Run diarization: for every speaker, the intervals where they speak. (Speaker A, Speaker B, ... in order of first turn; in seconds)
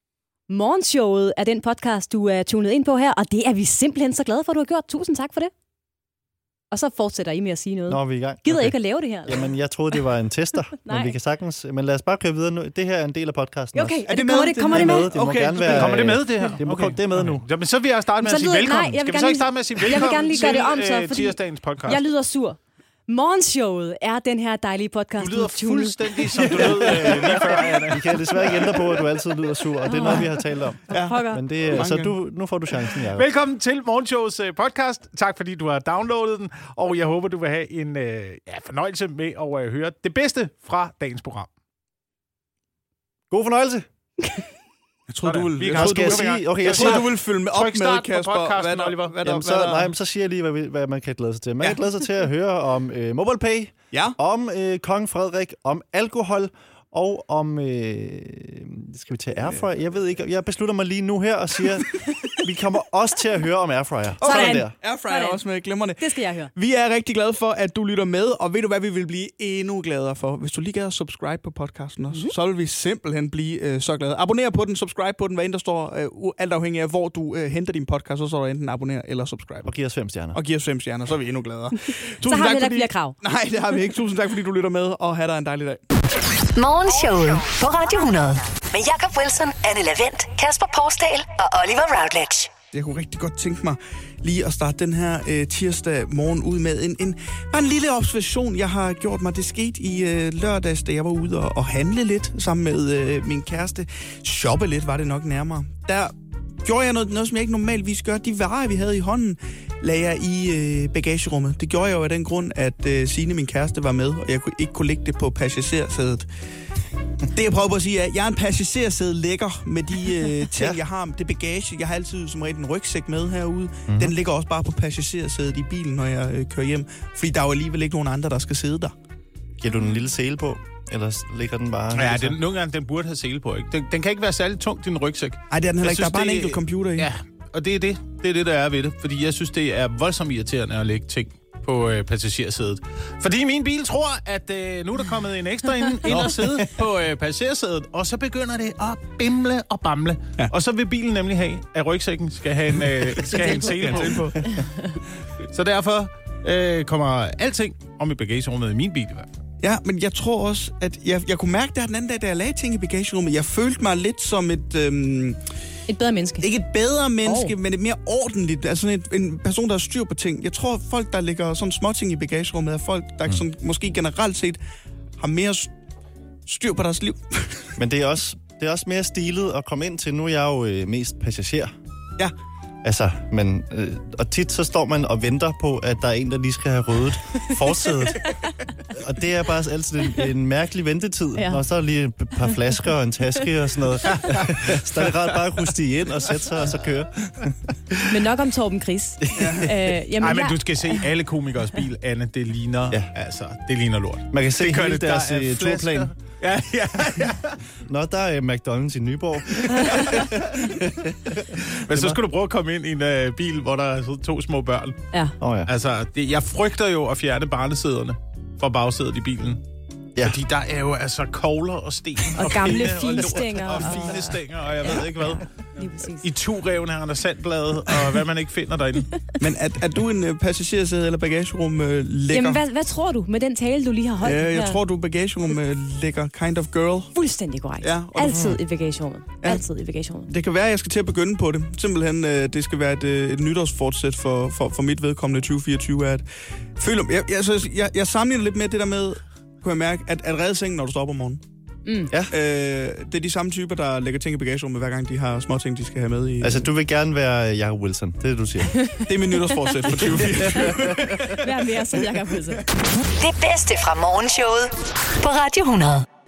Speaker A: 0.5-5.5, 6.7-9.5, 10.8-11.1, 13.7-15.2, 18.2-27.7, 29.8-30.3, 30.9-31.4, 64.2-65.4, 66.0-66.5, 82.3-83.2, 165.9-166.5, 167.2-167.5, 188.2-188.5, 191.4-191.6, 198.0-201.1, 222.4-226.3, 232.3-234.8, 237.1-240.3, 251.8-252.1, 260.5-262.6
Speaker B: 7.9-14.0, 14.7-17.4, 26.5-33.3, 43.3-43.9, 45.6-47.1, 49.2-64.7, 79.6-80.4, 120.6-120.8, 123.9-124.1, 129.6-132.4, 146.1-146.5, 177.8-181.7, 182.8-188.4, 188.9-198.0, 204.3-206.1, 207.8-212.2, 215.4-215.7, 238.3-238.6, 256.4-258.7, 260.0-261.1
Speaker C: 14.1-16.2, 30.9-32.1, 45.1-49.9, 53.9-54.2, 64.2-79.7, 80.3-85.9, 92.7-106.1, 106.6-116.3, 117.2-128.9, 135.5-137.1, 153.2-154.5, 159.6-165.4, 166.4-174.6, 175.2-175.7, 176.5-177.7, 199.3-199.8, 229.4-232.6, 234.2-237.1, 237.8-238.6, 240.3-246.2, 246.8-251.4, 252.3-256.6, 259.1-261.5
Speaker D: 15.6-22.0, 25.2-28.9, 33.1-41.5, 45.2-49.2, 131.9-154.6, 155.5-159.3, 200.2-207.6, 209.6-210.2, 211.5-215.0, 215.7-219.6, 220.2-225.4, 226.2-229.1
Speaker E: 86.5-92.5, 263.0-266.0